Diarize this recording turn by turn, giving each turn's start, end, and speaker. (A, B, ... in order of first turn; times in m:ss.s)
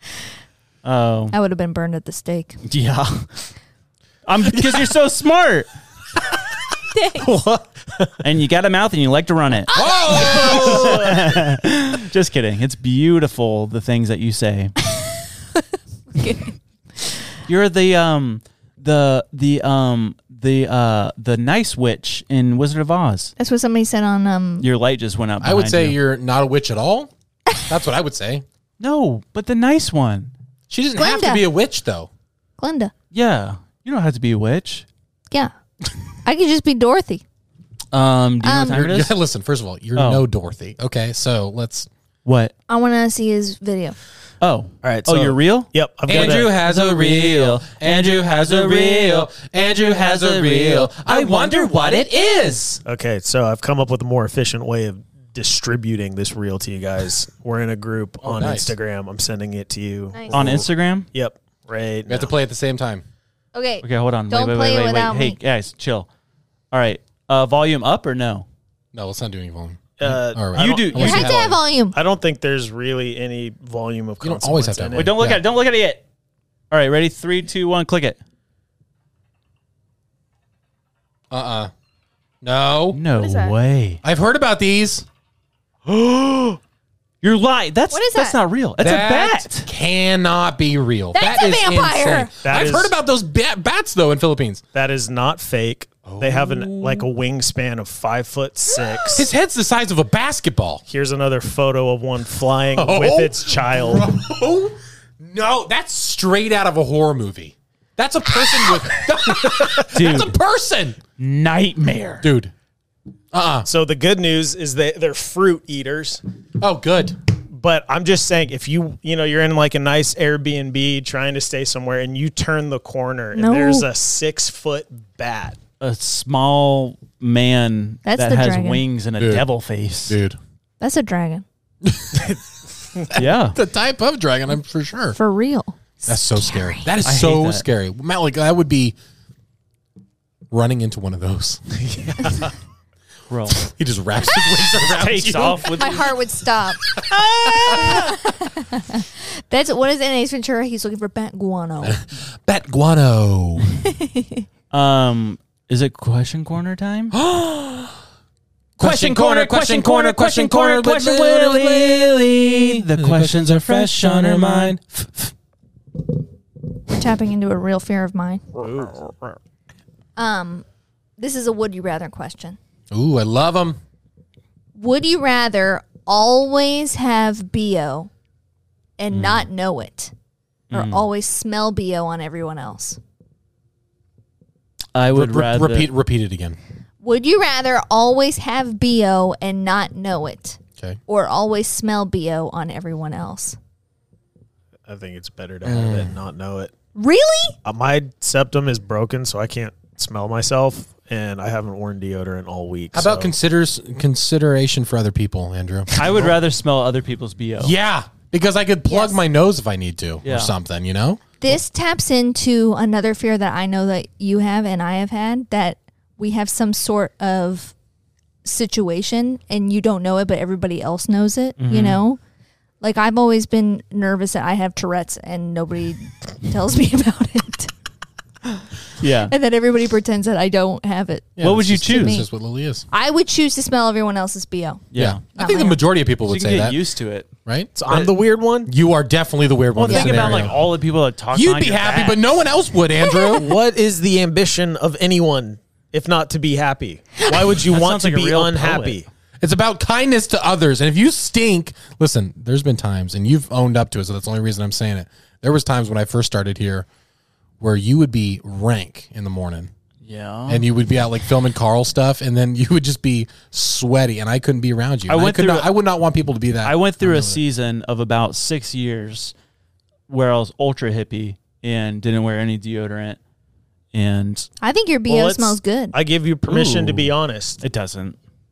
0:00.8-0:01.3 A
0:01.3-0:02.6 B
0:02.6-0:03.3 A
0:04.2-0:05.7 A
0:06.9-0:07.3 B
0:07.2-0:08.1 C
0:08.2-0:14.7 A
0:09.7-0:10.9 B
0:09.7-0:11.3 D
0:10.5-0:11.2 C
0:16.1-0:17.1 B
0:17.4-0:23.3 A
0:23.4-0:24.7 B
0:24.6-0:26.0 A
0:25.4-0:27.1 D
0:27.6-0:28.4 D
0:28.8-0:30.3 A
0:30.7-0:32.1 D
0:31.0-0:31.4 B
0:32.6-0:32.9 B
0:33.1-0:34.9 A
0:36.2-0:37.2 B
0:37.9-0:39.1 A
0:38.4-0:38.8 B
0:38.6-0:41.9 D
0:40.0-0:40.2 A
0:42.2-0:42.5 A
0:42.7-0:44.0 B
0:44.4-0:52.8 A
0:44.8-0:46.4 C
0:46.1-0:52.2 D
0:52.8-1:02.3 C
0:58.2-0:58.8 D
1:00.1-1:00.5 B
1:00.3-1:01.1 A
1:02.1-1:03.0 D
1:03.5-1:05.4 B
1:03.8-1:06.1 A
1:06.7-1:08.4 A
1:08.9-1:11.6 D
1:10.0-1:15.2 C
1:10.5-1:11.4 A
1:10.9-1:12.0 B
1:14.2-1:15.4 D
1:14.9-1:16.0 A
1:16.7-1:18.2 A
1:21.3-1:21.7 D
1:22.4-1:23.0 D
1:22.9-1:24.0 A
1:23.2-1:23.5 B
1:24.0-1:25.0 D
1:25.9-1:26.6 A
1:27.2-1:29.7 A
1:27.9-1:28.4 B
1:28.8-1:34.6 D
1:31.1-1:32.3 B
1:32.4-1:32.9 C
1:34.7-1:39.3 C
1:36.1-1:37.1 D
1:38.8-1:39.2 B
1:39.1-1:40.8 D
1:40.9-1:44.1 C
1:42.7-1:51.0 D
1:49.9-1:50.3 A
1:51.2-1:52.3 A
1:52.2-1:52.5 D
1:53.3-1:53.7 D
1:53.6-1:56.2 C
1:56.6-1:57.2 D
1:57.5-2:05.6 C
2:03.3-2:03.9 B
2:05.8-2:10.2 A
2:08.0-2:08.8 B
2:09.2-2:09.4 D
2:10.1-2:10.4 D
2:10.8-2:11.4 B
2:11.8-2:12.4 D
2:13.1-2:15.2 D
2:13.1-2:13.6 A
2:15.1-2:16.8 B
2:16.1-2:19.0 D
2:17.0-2:17.6 A
2:20.5-2:21.6 D
2:21.8-2:22.5 C
2:23.3-2:23.6 A
2:23.6-2:25.8 D
2:24.9-2:26.1 A
2:25.7-2:26.8 B
2:27.0-2:28.0 D
2:27.1-2:28.2 A
2:27.6-2:32.0 B
2:31.8-2:33.7 D
2:33.9-2:34.4 B
2:34.7-2:37.2 A
2:37.1-2:38.0 D
2:38.8-2:45.1 D
2:38.8-2:44.8 A
2:46.9-2:48.4 B
2:48.6-2:49.0 C
2:50.2-2:50.6 B
2:51.2-2:52.6 B
2:52.9-2:53.8 D
2:54.8-2:58.1 B
2:59.0-3:00.1 B
2:59.1-2:59.4 A
3:00.7-3:01.0 A
3:00.7-3:03.0 B
3:04.9-3:05.9 A
3:05.1-3:06.6 D
3:07.0-3:13.6 B
3:14.9-3:16.7 C
3:15.6-3:16.1 D
3:16.9-3:17.6 B
3:17.6-3:23.3 C
3:22.9-3:26.3 D
3:25.9-3:27.7 A
3:27.6-3:31.2 D
3:28.9-3:29.2 B
3:30.2-3:30.5 A
3:31.4-3:37.7 B
3:38.4-3:42.2 B
3:41.6-3:42.0 A
3:42.8-3:47.7 B
3:49.0-3:49.3 A
3:49.3-3:52.2 B
3:51.4-3:52.8 D
3:51.4-3:52.2 A
3:52.9-3:55.8 B
3:54.9-3:55.2 A
3:55.0-3:56.8 D
3:56.2-3:57.3 A
3:57.4-4:00.6 D
3:57.7-3:58.7 C
3:59.8-4:02.2 A
3:59.9-4:00.3 B
4:01.3-4:03.5 D
4:03.1-4:03.4 B
4:03.3-4:09.1 C
4:07.7-4:09.0 A
4:09.4-4:16.9 D
4:17.6-4:19.7 D
4:20.0-4:20.7 A
4:20.5-4:27.4 D
4:25.1-4:25.7 A
4:26.6-4:29.3 A
4:30.1-4:33.2 A
4:33.9-4:34.5 A
4:34.6-4:35.9 B
4:35.1-4:37.6 C
4:36.5-4:38.2 A